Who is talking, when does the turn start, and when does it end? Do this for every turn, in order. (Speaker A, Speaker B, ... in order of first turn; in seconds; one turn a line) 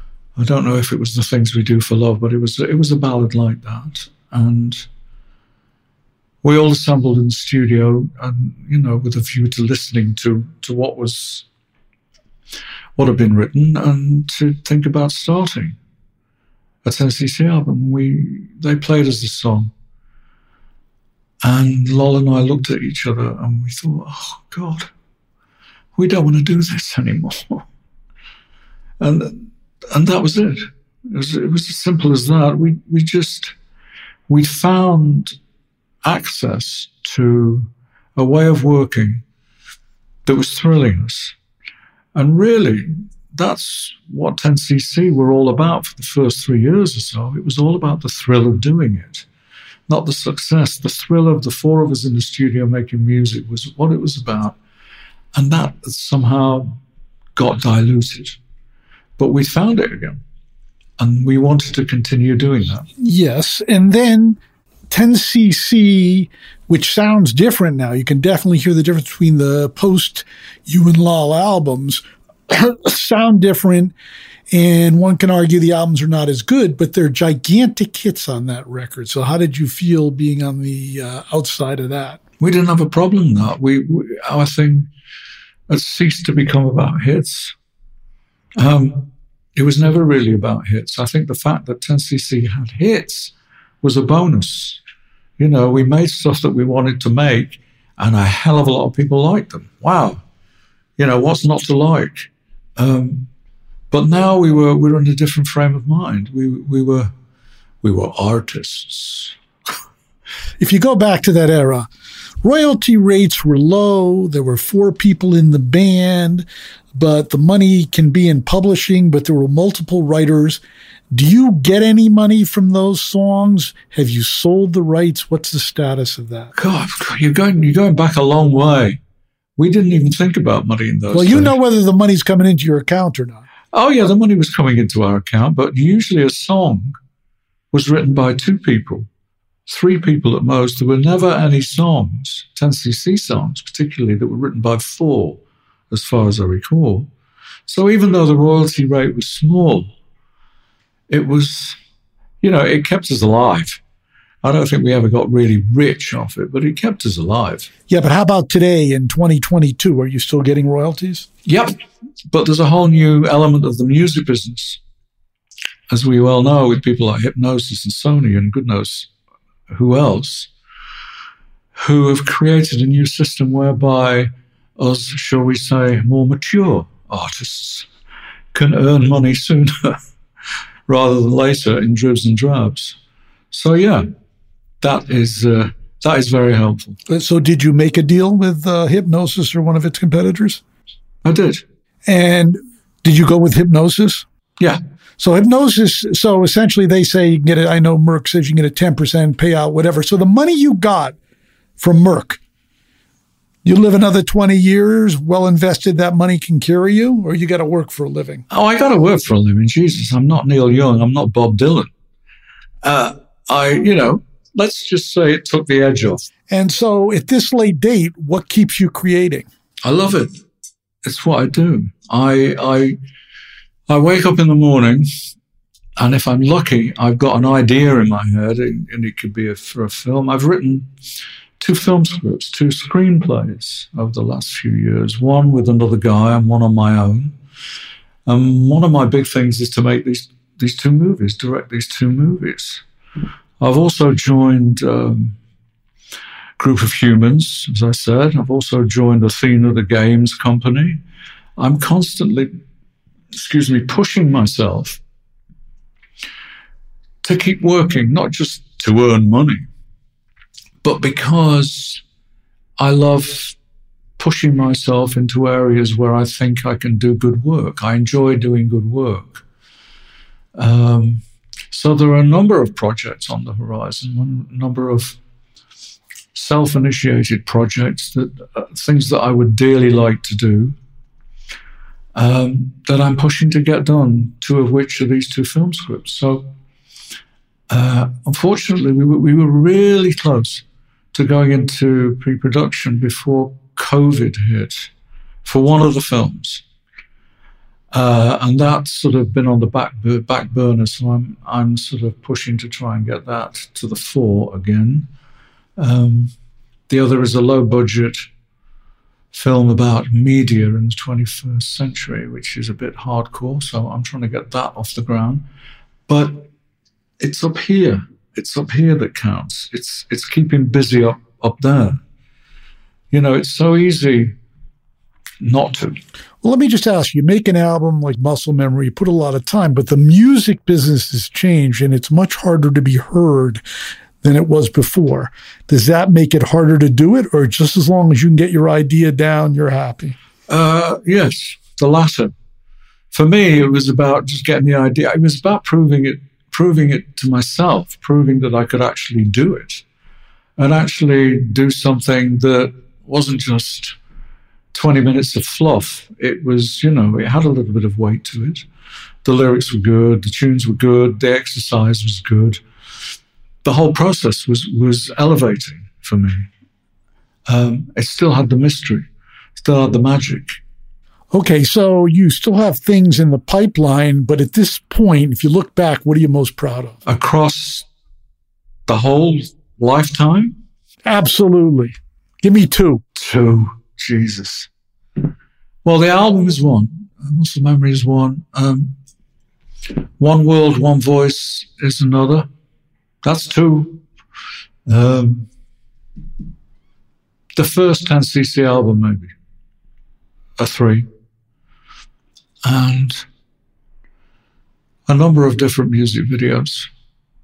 Speaker A: 0.3-4.9
Speaker A: 6.4-11.4
Speaker A: 12.9-15.8
Speaker A: 16.8-19.7
Speaker A: 21.4-24.9
Speaker A: 25.9-27.6
Speaker A: 29.0-33.5
Speaker A: 34.3-35.4
Speaker A: 36.0-39.2
Speaker A: 40.2-41.4
Speaker A: 42.1-49.3
Speaker A: 49.9-54.5
Speaker A: 55.3-56.8
Speaker A: 57.4-58.4
Speaker A: 59.2-60.2
Speaker A: 61.0-62.9
Speaker B: 63.0-64.4
Speaker B: 64.9-73.9
Speaker B: 74.5-82.2
Speaker A: 82.4-84.9
Speaker A: 85.7-87.5
Speaker A: 88.5-94.8
Speaker A: 95.4-100.2
Speaker A: 101.0-103.3
Speaker A: 103.9-107.1
Speaker A: 107.8-109.3
Speaker B: 110.6-111.9
Speaker B: 112.4-126.5
Speaker A: 126.5-129.0
Speaker A: 129.6-131.6
Speaker B: 131.1-133.4
Speaker A: 133.7-137.0
Speaker A: 137.7-139.1
Speaker A: 139.7-147.1
Speaker A: 147.7-149.9
Speaker A: 151.1-151.8
Speaker A: 152.4-153.8
Speaker A: 154.4-157.7
Speaker B: 157.9-161.3
Speaker A: 161.4-161.7
Speaker A: 162.3-164.8
Speaker A: 165.9-169.1
Speaker A: 169.7-170.5
Speaker A: 171.8-177.9
Speaker A: 178.5-180.0
Speaker A: 180.9-183.0
Speaker A: 183.5-184.1
Speaker A: 184.8-187.0
Speaker B: 187.1-190.6
Speaker A: 191.2-191.6
Speaker B: 192.1-194.2
Speaker B: 195.2-201.2
Speaker B: 201.8-202.4
Speaker B: 203.6-208.4
Speaker A: 208.5-211.9
Speaker A: 212.8-216.3
Speaker B: 216.5-219.5
Speaker A: 219.8-220.4
Speaker A: 221.0-223.0
Speaker A: 223.9-225.1
Speaker A: 226.0-230.9
Speaker A: 231.6-237.4
Speaker A: 238.2-242.8
Speaker A: 243.6-245.4
Speaker A: 246.6-251.0
Speaker A: 251.6-252.6
Speaker A: 253.3-255.0
Speaker A: 257.2-259.7
Speaker A: 260.8-262.0
Speaker A: 262.8-263.6
Speaker A: 264.2-269.4
Speaker A: 270.5-275.2
Speaker A: 276.3-280.8
Speaker A: 282.1-286.5
Speaker A: 287.7-294.9
Speaker A: 295.4-296.6
Speaker A: 297.9-305.1
Speaker A: 305.8-306.3
Speaker A: 306.9-308.3
Speaker A: 309.3-315.4
Speaker A: 316.1-316.5
Speaker A: 317.2-322.0
Speaker A: 323.1-324.4
Speaker A: 325.4-326.0
Speaker B: 326.4-333.6
Speaker B: 334.2-340.1
Speaker A: 340.5-342.3
Speaker A: 343.1-349.8
Speaker A: 350.6-353.9
Speaker A: 354.7-358.6
Speaker A: 359.2-362.6
Speaker A: 363.6-366.5
Speaker A: 367.4-369.1
Speaker A: 369.6-370.6
Speaker B: 371.3-377.0
Speaker A: 377.0-377.9
Speaker A: 378.9-380.6
Speaker B: 381.0-383.0
Speaker A: 383.1-384.7
Speaker A: 385.8-389.0
Speaker A: 390.2-392.5
Speaker A: 393.2-394.0
Speaker A: 394.9-395.5
Speaker A: 397.6-399.3
Speaker A: 400.6-401.1
Speaker A: 402.6-403.2
Speaker A: 405.1-406.9